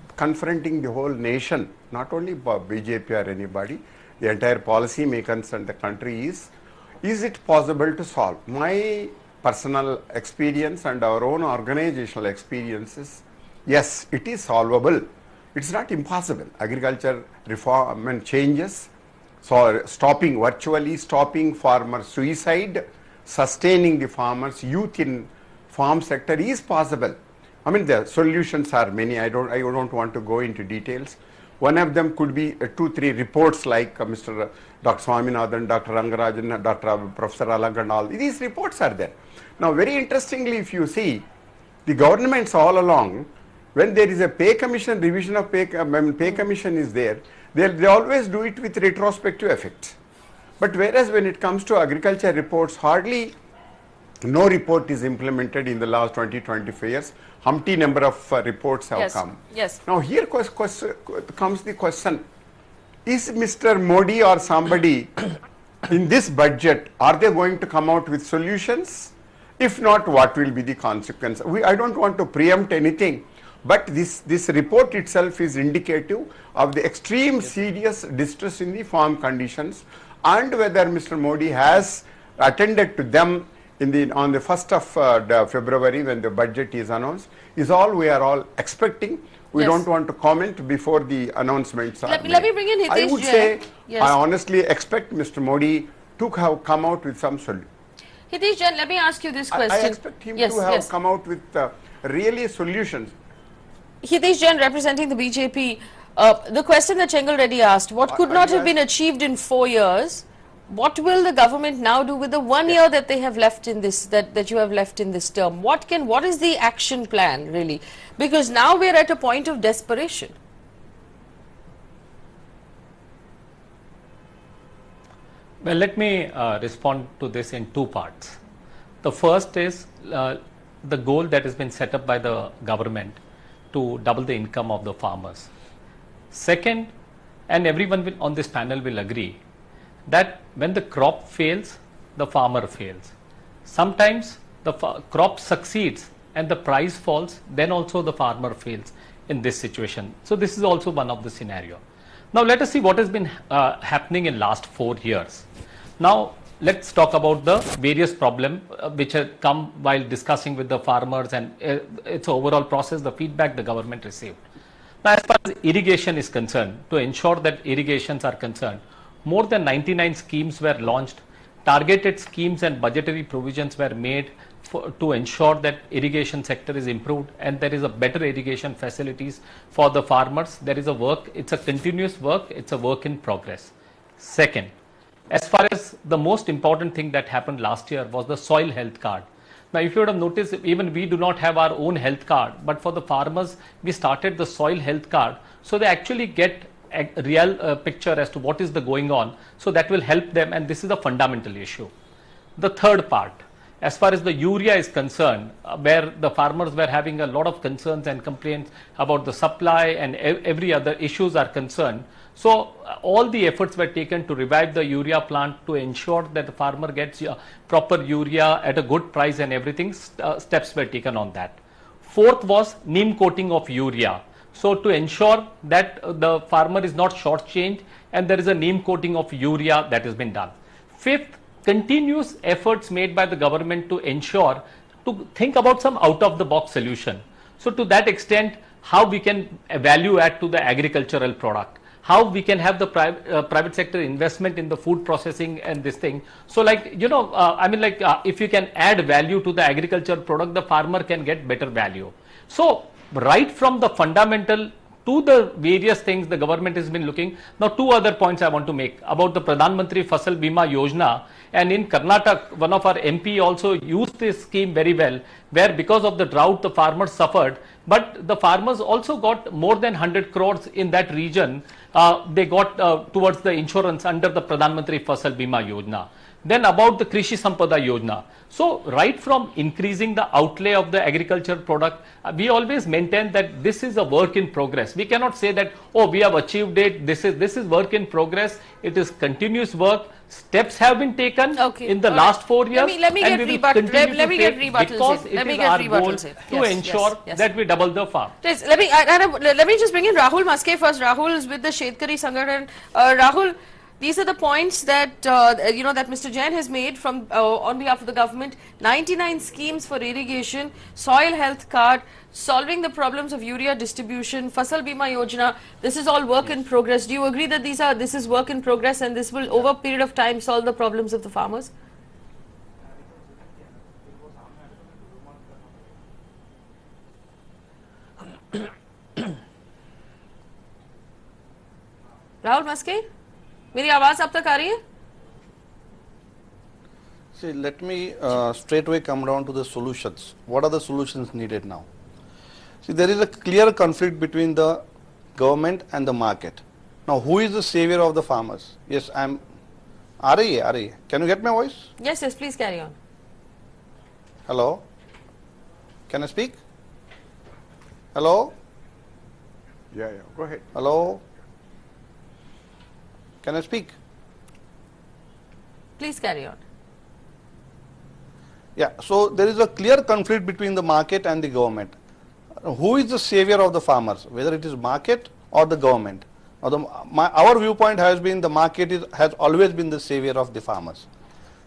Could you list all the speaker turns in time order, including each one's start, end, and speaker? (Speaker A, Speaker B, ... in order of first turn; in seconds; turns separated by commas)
Speaker A: 0.2-6.5, Speaker A: 7.0-18.9, Speaker A: 19.4-41.2, Speaker A: 41.9-50.0, Speaker A: 50.6-53.4, Speaker A: 54.2-62.2, Speaker B: 59.0-59.8, Speaker A: 63.1-65.3, Speaker A: 65.9-97.7, Speaker B: 89.6-89.8, Speaker B: 92.1-94.2, Speaker B: 98.3-100.9, Speaker A: 99.5-103.1, Speaker B: 104.0-120.4, Speaker A: 108.1-108.8, Speaker C: 125.6-128.4, Speaker C: 129.0-133.2, Speaker C: 133.7-135.5, Speaker C: 136.3-136.9, Speaker C: 137.5-139.4, Speaker C: 140.1-143.1, Speaker C: 143.7-151.8, Speaker C: 152.3-155.4, Speaker C: 156.0-164.4, Speaker C: 165.0-184.7, Speaker C: 185.3-201.9, Speaker C: 202.6-298.4, Speaker B: 291.6-297.4, Speaker B: 298.4-321.7, Speaker B: 332.4-333.1, Speaker B: 333.7-334.8, Speaker D: 337.4-341.9, Speaker D: 342.8-344.8, Speaker D: 345.4-349.4, Speaker D: 350.2-351.9, Speaker B: 352.0-353.0, Speaker D: 354.5-354.8, Speaker D: 356.1-356.6, Speaker D: 358.1-358.5, Speaker A: 359.9-360.7, Speaker D: 360.7-361.2, Speaker D: 363.4-363.9, Speaker B: 366.0-366.6, Speaker D: 368.8-371.9, Speaker D: 372.6-381.1